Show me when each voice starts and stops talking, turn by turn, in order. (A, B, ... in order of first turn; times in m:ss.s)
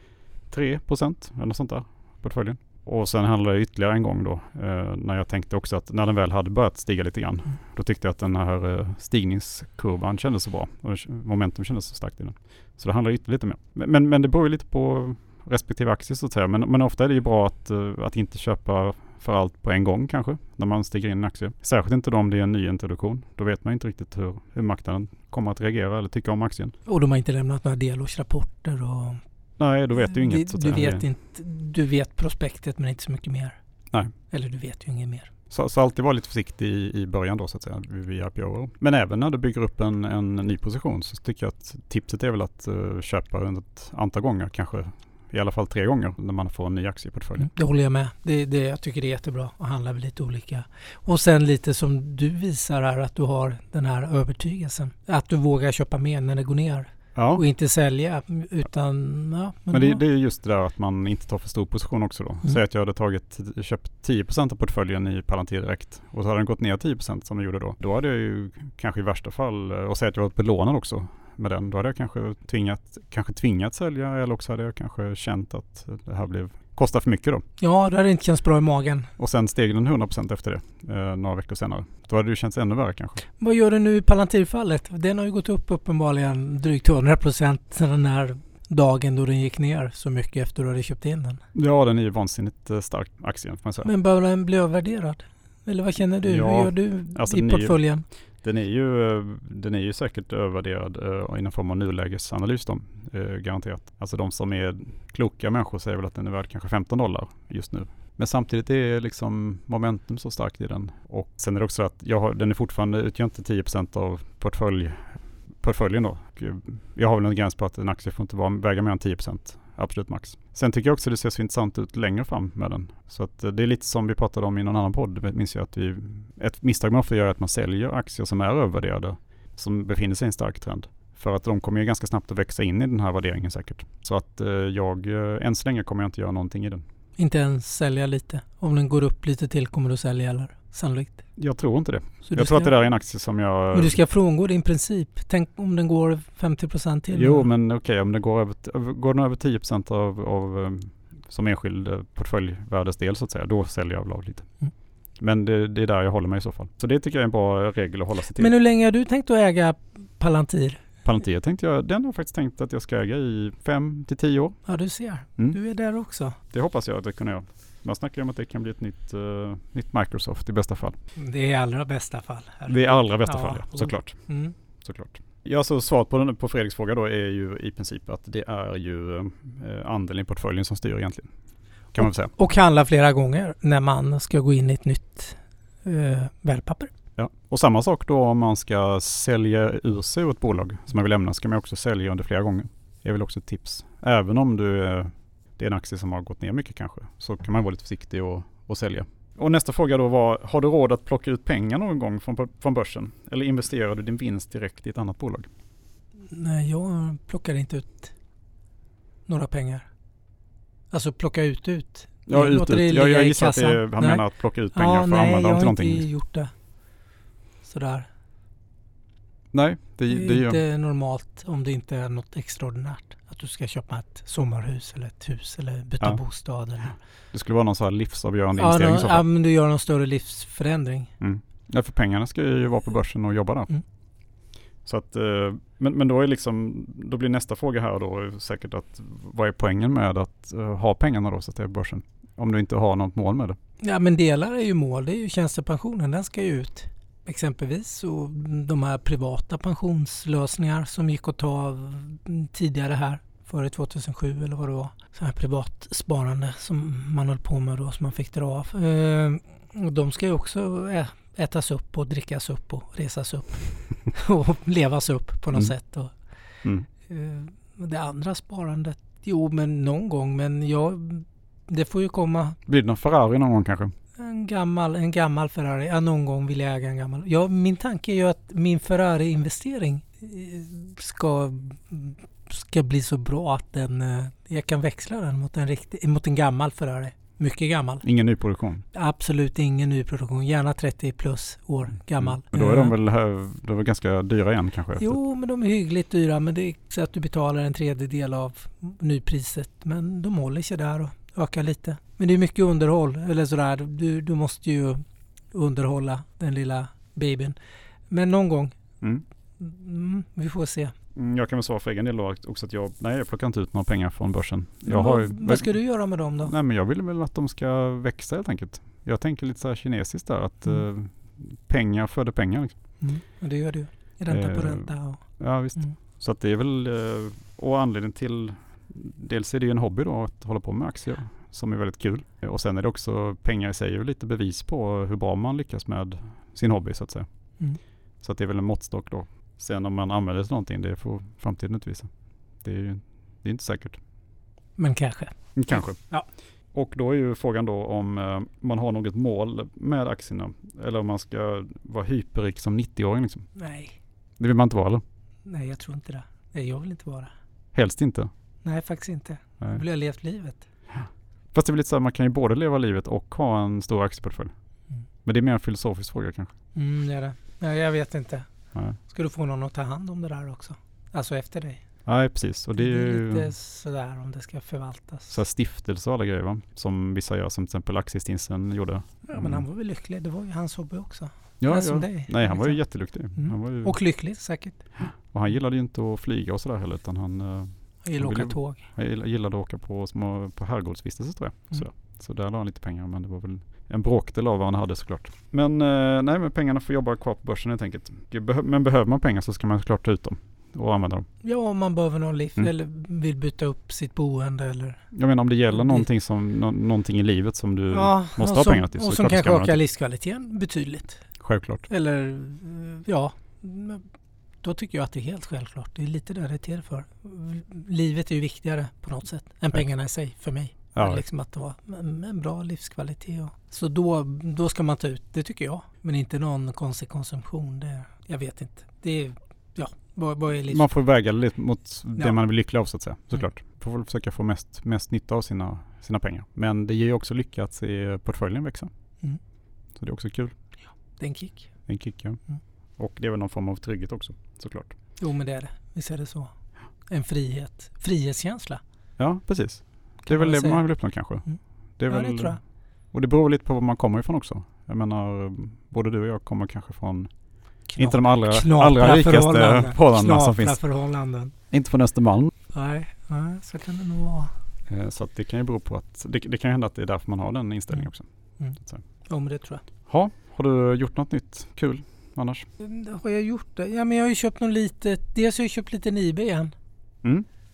0:00.5-0:26.7 A
0:26.8-0:29.2 B
0:29.6-0:31.0 A
0:30.0-0:33.6 B
0:34.3-0:35.3 B
0:35.5-0:47.5 A
0:47.4-1:00.0 B
0:57.1-0:57.4 A
0:59.7-1:17.4 A
1:17.6-1:19.1 B
1:19.2-1:23.2 A
1:23.4-1:31.4 B
1:31.5-1:33.9 A
1:33.8-1:38.0 B
1:36.2-1:37.8 A
1:38.4-1:55.1 A
1:55.6-2:16.8 A
2:17.2-2:21.2 B
2:21.4-2:24.0 A
2:22.2-2:22.7 B
2:23.7-2:27.5 B
2:27.1-2:34.4 A
2:35.2-2:38.5 A
2:38.3-2:40.8 B
2:41.0-2:44.6 A
2:44.6-2:46.4 B
2:46.5-2:51.0 A
2:51.2-2:54.5 B
2:52.7-2:54.2 A
2:54.8-3:01.3 A
3:01.9-3:02.3 A
3:02.0-3:06.9 B
3:07.2-3:25.5 A
3:26.3-3:28.1 B
3:29.3-3:29.8 B
3:30.9-3:34.2 B
3:32.3-3:36.1 A
3:34.7-3:36.5 B
3:37.6-3:38.1 B
3:39.5-3:40.6 A
3:40.1-3:46.9 B
3:47.3-3:49.2 A
3:48.6-3:51.1 B
3:51.2-3:53.7 A
3:54.8-4:03.6 A
4:03.8-4:26.1 B
4:27.1-4:32.6 B
4:32.7-4:33.9 A
4:34.2-4:48.0 B
4:48.0-4:48.8 A
4:48.9-4:52.9 B
4:52.2-4:55.2 A
4:55.0-5:05.0 B
5:05.5-5:07.6 B
5:08.1-5:08.8 B
5:09.6-5:10.9 B
5:11.1-5:15.7 A
5:14.9-5:16.5 B
5:16.4-5:22.7 A
5:23.0-5:25.2 B
5:24.3-5:24.9 A
5:25.4-5:37.2 A
5:38.2-5:42.1 A
5:42.6-5:44.0 A
5:44.8-5:46.3 B
5:45.6-5:46.0 A
5:46.7-5:53.5 A
5:53.6-5:54.0 B
5:54.4-5:55.0 A
5:55.4-5:57.3 B
5:57.7-5:58.3 A
5:58.6-6:00.6 B
6:00.9-6:04.5 A
6:05.2-6:06.5 A
6:06.7-6:08.5 B
6:09.1-6:11.8 B
6:12.0-6:13.5 A
6:12.8-6:15.4 B
6:15.3-6:19.6 A
6:19.3-6:22.8 B
6:21.6-6:23.9 A
6:23.4-6:24.8 B
6:25.0-6:41.2 A
6:28.0-6:28.8 B
6:41.4-6:45.0 B
6:45.1-6:49.8 A
6:45.7-6:46.0 B
6:47.9-6:51.2 B
6:51.4-6:51.8 A
6:51.9-6:54.0 B
6:54.6-7:10.8 B
7:00.9-7:01.2 A
7:10.7-7:18.9 A
7:20.0-7:20.5 A
7:21.2-7:21.7 B
7:21.9-7:22.4 A
7:23.0-7:24.9 A
7:25.2-7:26.5 B
7:27.1-7:28.8 B
7:29.2-7:31.4 A
7:30.2-7:30.8 B
7:32.0-7:32.6 A
7:32.1-7:32.6 B
7:33.1-7:37.3 A
7:37.9-7:41.5 B
7:38.0-7:40.8 A
7:41.7-7:42.5 A
7:42.7-7:44.5 B
7:44.9-7:48.2 A
7:48.6-7:49.8 B
7:50.1-7:52.6 A
7:52.8-7:56.7 B